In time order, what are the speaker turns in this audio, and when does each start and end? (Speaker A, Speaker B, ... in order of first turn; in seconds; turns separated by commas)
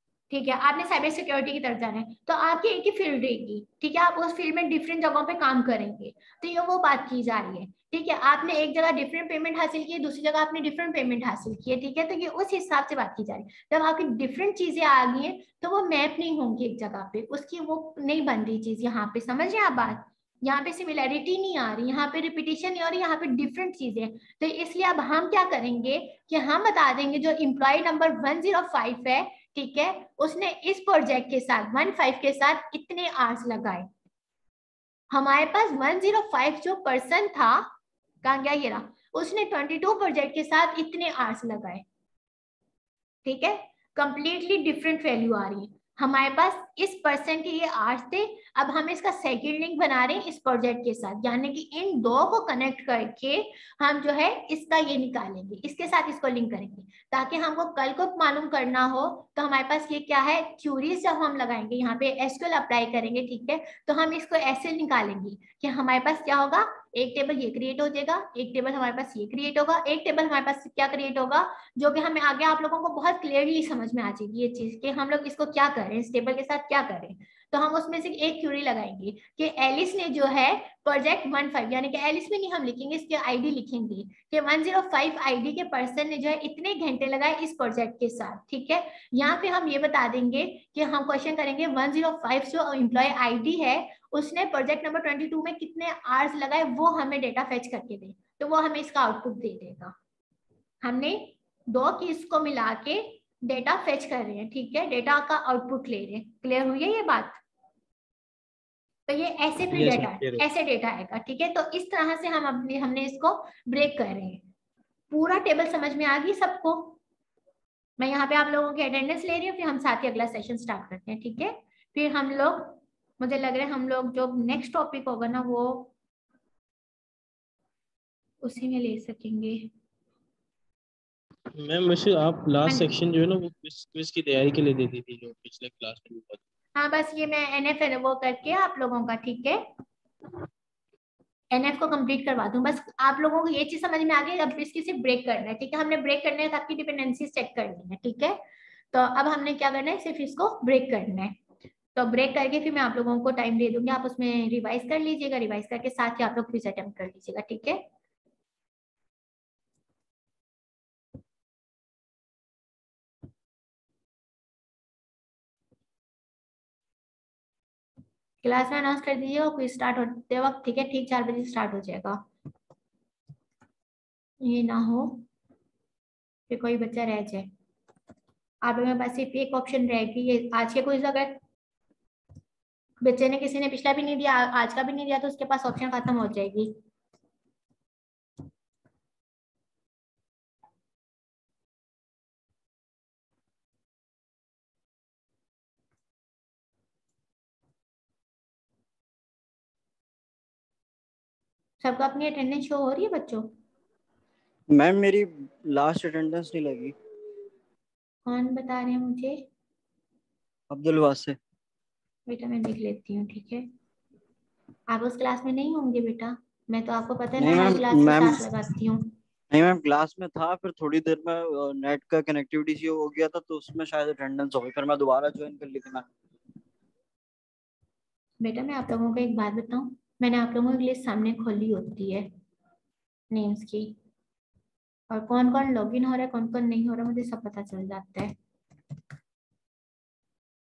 Speaker A: 0.3-33.9, Speaker A: 35.1-37.7, Speaker A: 38.2-41.8, Speaker A: 43.2-99.9, Speaker A: 100.8-107.4, Speaker A: 109.1-114.4, Speaker B: 109.7-110.4, Speaker A: 115.1-117.0, Speaker A: 118.0-125.9, Speaker A: 128.4-129.7, Speaker B: 131.6-136.4, Speaker A: 132.7-133.0, Speaker A: 136.8-139.6, Speaker A: 141.5-148.3, Speaker A: 148.9-151.3, Speaker A: 151.9-157.8, Speaker A: 168.4-172.2, Speaker A: 174.4-175.2, Speaker A: 176.5-177.5, Speaker A: 178.6-181.4, Speaker A: 183.0-186.7, Speaker A: 201.8-203.5, Speaker C: 204.7-206.9, Speaker A: 208.2-209.4, Speaker C: 210.7-211.4, Speaker A: 212.3-213.7, Speaker A: 214.9-219.1, Speaker C: 217.4-218.5, Speaker C: 219.5-226.1, Speaker A: 228.4-232.3, Speaker A: 233.3-233.9, Speaker A: 235.1-238.3